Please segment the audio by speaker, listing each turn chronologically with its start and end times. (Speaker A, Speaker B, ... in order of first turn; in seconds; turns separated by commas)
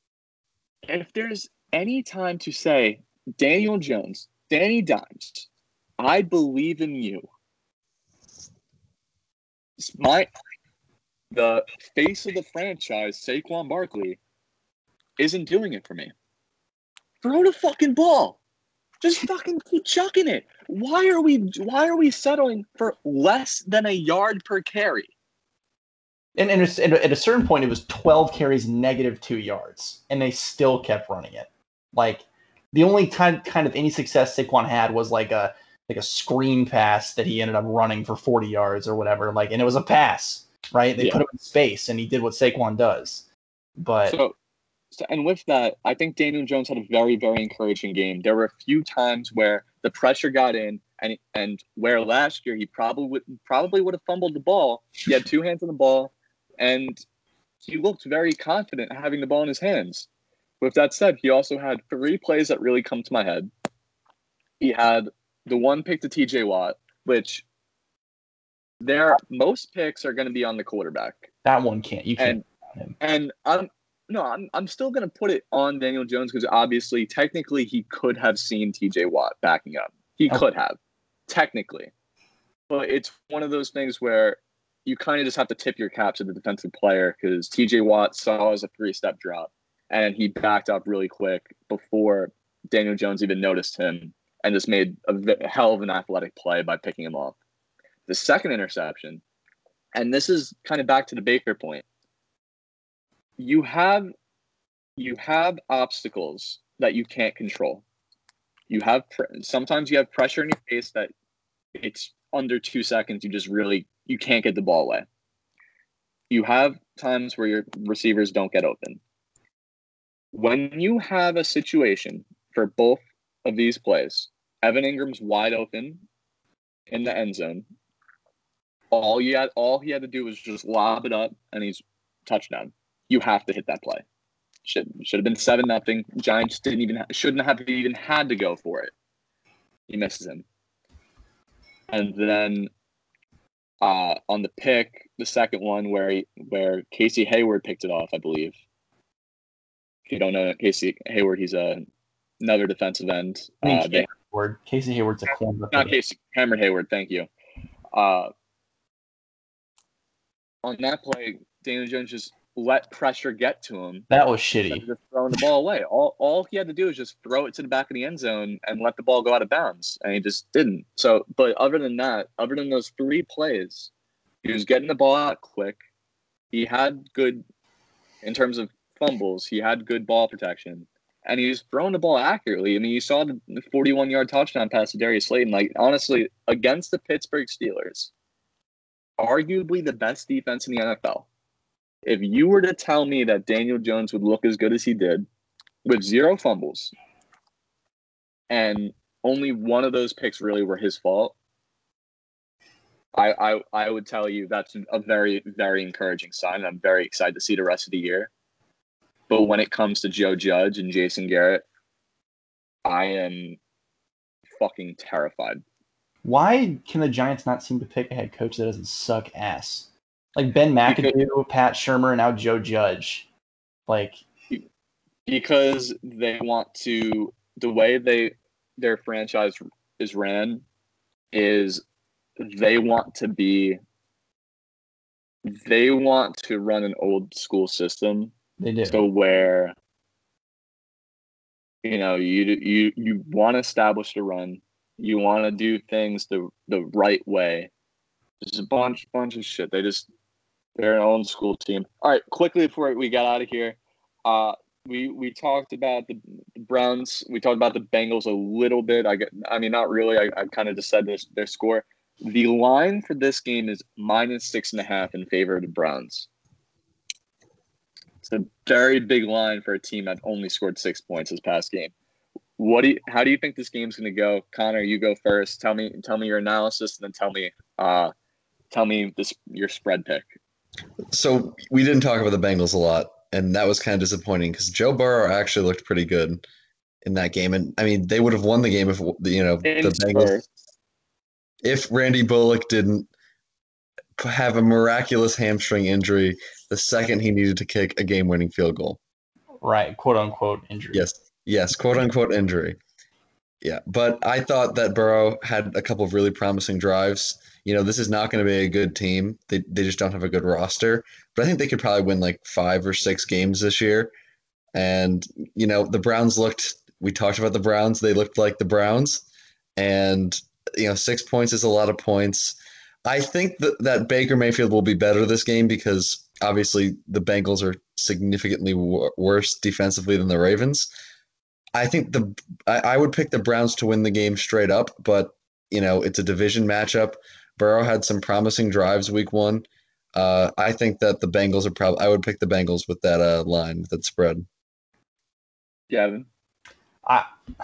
Speaker A: 0.9-5.5, Speaker A: 6.0-7.3, Speaker A: 9.8-10.3, Speaker A: 11.3-14.2, Speaker A: 15.2-16.1, Speaker A: 17.2-18.4, Speaker A: 19.0-25.1, Speaker B: 26.3-43.2, Speaker B: 43.8-44.2, Speaker A: 44.1-44.3, Speaker A: 44.9-57.0, Speaker A: 57.6-60.1, Speaker A: 60.6-63.5, Speaker A: 64.6-67.4, Speaker A: 68.8-71.3, Speaker B: 71.4-72.9, Speaker A: 72.2-72.4, Speaker A: 73.0-81.9, Speaker A: 82.7-97.3, Speaker A: 98.1-99.2, Speaker A: 99.9-101.8, Speaker A: 103.4-104.1, Speaker A: 105.0-107.8, Speaker A: 108.7-111.1, Speaker A: 111.7-115.0, Speaker A: 116.3-119.0, Speaker A: 120.3-126.0, Speaker A: 126.9-127.6, Speaker A: 128.9-134.0, Speaker A: 134.6-138.9, Speaker A: 139.9-140.4, Speaker A: 141.9-142.7, Speaker A: 143.8-148.6, Speaker A: 150.1-151.8, Speaker A: 152.4-154.1, Speaker B: 153.6-156.0, Speaker A: 155.3-157.3, Speaker A: 157.9-158.3, Speaker A: 160.6-164.1, Speaker B: 164.1-164.8, Speaker A: 164.7-173.9, Speaker A: 174.4-175.8, Speaker A: 176.5-177.4, Speaker A: 178.2-188.1, Speaker A: 189.2-191.3, Speaker A: 192.0-195.3, Speaker A: 195.8-196.9, Speaker A: 198.5-201.3, Speaker A: 203.1-208.3, Speaker A: 209.3-211.6, Speaker A: 212.8-213.6, Speaker A: 214.6-215.6, Speaker B: 216.2-223.3, Speaker A: 220.8-221.1, Speaker B: 223.9-224.2, Speaker A: 225.2-230.6, Speaker A: 231.3-231.8, Speaker A: 232.4-233.8, Speaker A: 235.4-238.3, Speaker B: 238.6-239.0, Speaker A: 238.8-239.7, Speaker A: 241.8-247.7, Speaker A: 248.4-250.1, Speaker A: 250.8-266.3, Speaker A: 268.2-271.9, Speaker A: 272.6-278.1, Speaker A: 278.7-280.3, Speaker C: 281.1-286.4, Speaker C: 287.0-290.4, Speaker A: 289.6-290.5, Speaker C: 291.6-293.1, Speaker C: 294.2-299.0, Speaker B: 299.6-301.0, Speaker C: 300.9-302.8, Speaker C: 303.6-314.1, Speaker C: 314.7-319.2, Speaker C: 319.8-330.9, Speaker C: 331.7-344.4, Speaker A: 345.9-346.3